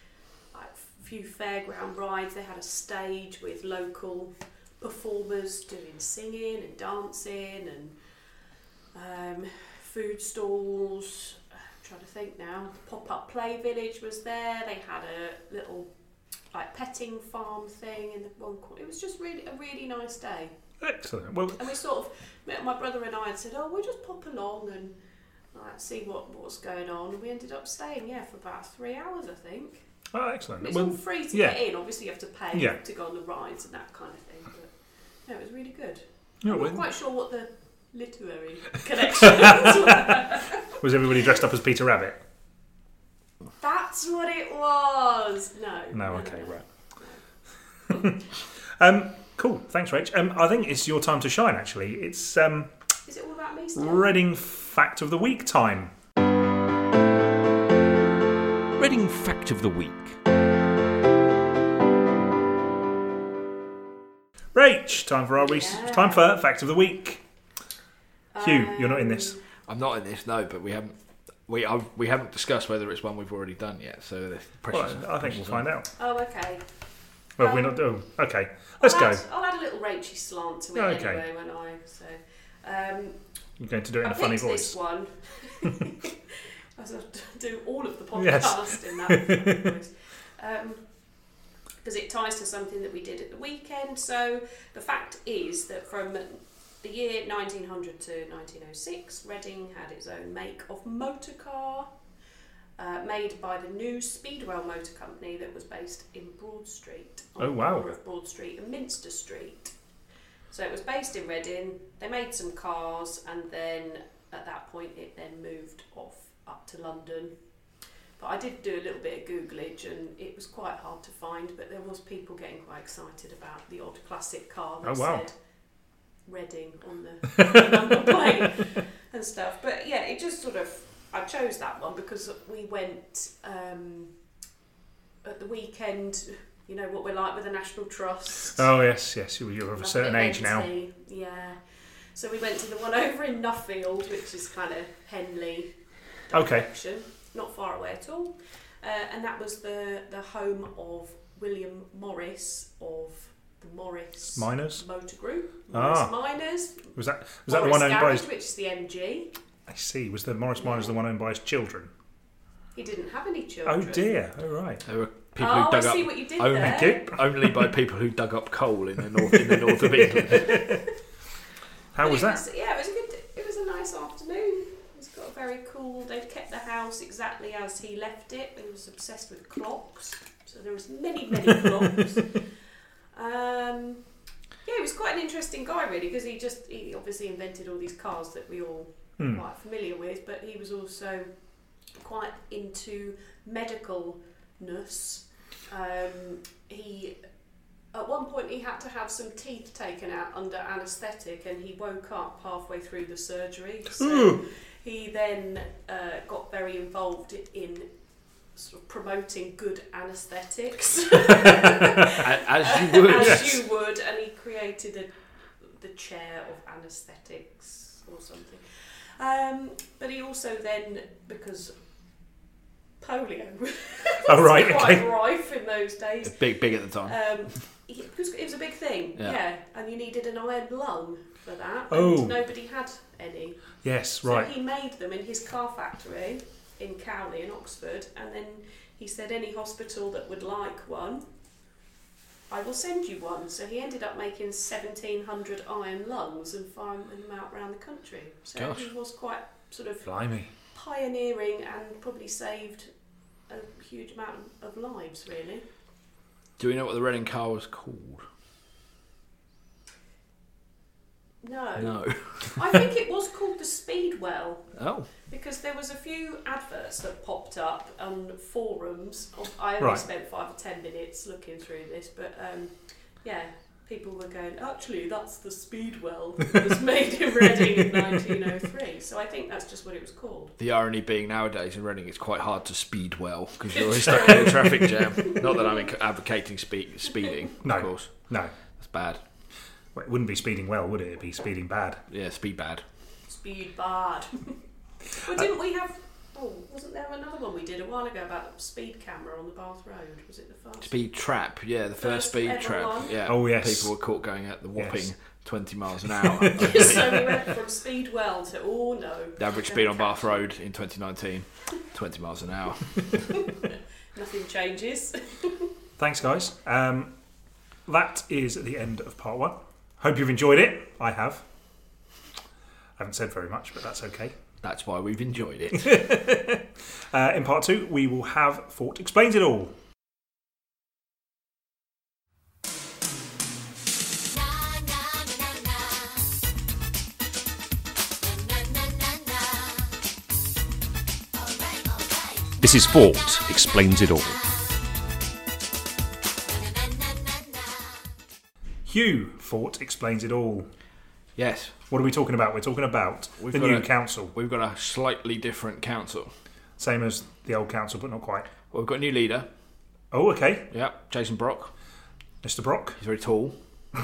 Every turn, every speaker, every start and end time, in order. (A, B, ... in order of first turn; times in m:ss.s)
0:00.5-0:08.0 A
0:08.9-0:15.9 A
0:16.5-0:20.5 A
0:20.8-0:21.6 B
0:21.6-0:25.0 A
0:25.5-0:29.8 A
0:30.1-0:31.6 B
0:30.6-0:34.7 A
0:35.2-0:40.8 A
0:36.4-0:36.8 B
0:39.1-0:42.2 B
0:43.6-0:47.2 A
0:45.9-0:46.6 B
0:47.9-0:52.7 B
0:53.0-0:54.2 A
0:53.8-0:55.9 B
0:58.8-1:00.2 C
1:04.5-1:07.2 B
1:05.3-1:06.3 A
1:08.3-1:09.4 A
1:08.4-1:09.4 B
1:09.6-1:10.9 D
1:11.5-1:15.6 D
1:14.7-1:15.9 B
1:16.0-1:16.6 A
1:17.4-1:19.2 B
1:17.4-1:17.8 A
1:18.8-1:23.2 A
1:20.7-1:21.2 B
1:23.6-1:24.8 B
1:24.0-1:30.8 A
1:28.2-1:29.6 B
1:31.8-1:41.9 A
1:42.8-1:49.7 A
1:47.4-1:48.0 B
1:50.5-1:57.4 A
1:58.2-2:05.4 A
2:04.8-2:05.2 B
2:06.3-2:14.1 A
2:15.2-2:18.7 A
2:18.5-2:20.7 B
2:19.8-2:25.8 A
2:26.3-2:36.9 A
2:26.3-2:26.7 B
2:34.3-2:34.8 B
2:35.7-2:36.1 B
2:36.9-2:38.3 B
2:37.5-2:39.3 A
2:39.7-2:41.9 B
2:40.6-2:40.9 A
2:42.7-2:44.1 A
2:43.6-2:44.8 B
2:44.8-2:50.6 D
2:45.4-2:47.1 A
2:46.6-2:47.7 B
2:49.3-2:50.8 B
2:50.4-2:50.8 A
2:51.9-2:52.4 B
2:52.0-3:02.4 A
3:03.1-3:04.0 A
3:04.6-3:11.3 A
3:12.0-3:17.2 A
3:17.9-3:27.9 A
3:24.0-3:24.4 B
3:28.5-3:41.8 A
3:32.2-3:33.6 D
3:33.2-3:33.5 B
3:43.0-3:53.6 A
3:44.3-3:45.0 B
3:46.2-3:47.2 D
3:51.9-3:52.3 B
3:53.8-3:54.5 B
3:54.2-4:01.3 A
4:02.5-4:10.1 A
4:08.6-4:08.9 D
4:10.0-4:10.5 B
4:10.6-4:12.9 A
4:13.5-4:15.6 A
4:16.6-4:18.2 D
4:21.4-4:40.5 A
4:21.8-4:22.8 D
4:24.8-4:25.1 D
4:29.8-4:30.0 B
4:40.6-4:48.1 D
4:43.7-4:45.9 A
4:47.6-4:48.5 B
4:48.8-4:49.2 D
4:49.9-4:52.0 B
4:52.1-4:52.8 D
4:53.3-4:54.6 A
4:55.2-5:00.9 A
5:00.8-5:07.5 D
5:02.0-5:03.2 A
5:03.2-5:03.9 B
5:04.8-5:05.1 B
5:06.2-5:06.9 B
5:06.6-5:10.4 A
5:09.4-5:13.3 D
5:14.1-5:15.7 A
5:16.0-5:17.1 B
5:17.9-5:21.4 B
5:23.0-5:24.4 B
5:24.6-5:26.0 D
5:25.7-5:29.7 B
5:42.6-5:44.4 C
5:48.8-5:50.7 B
5:51.4-5:51.8 D
5:51.9-5:54.3 B
5:53.4-5:56.3 D
5:56.8-5:58.5 B
5:58.7-5:59.5 D
6:00.1-6:00.7 B
6:00.7-6:01.7 D
6:02.4-6:03.0 B
6:03.0-6:03.6 D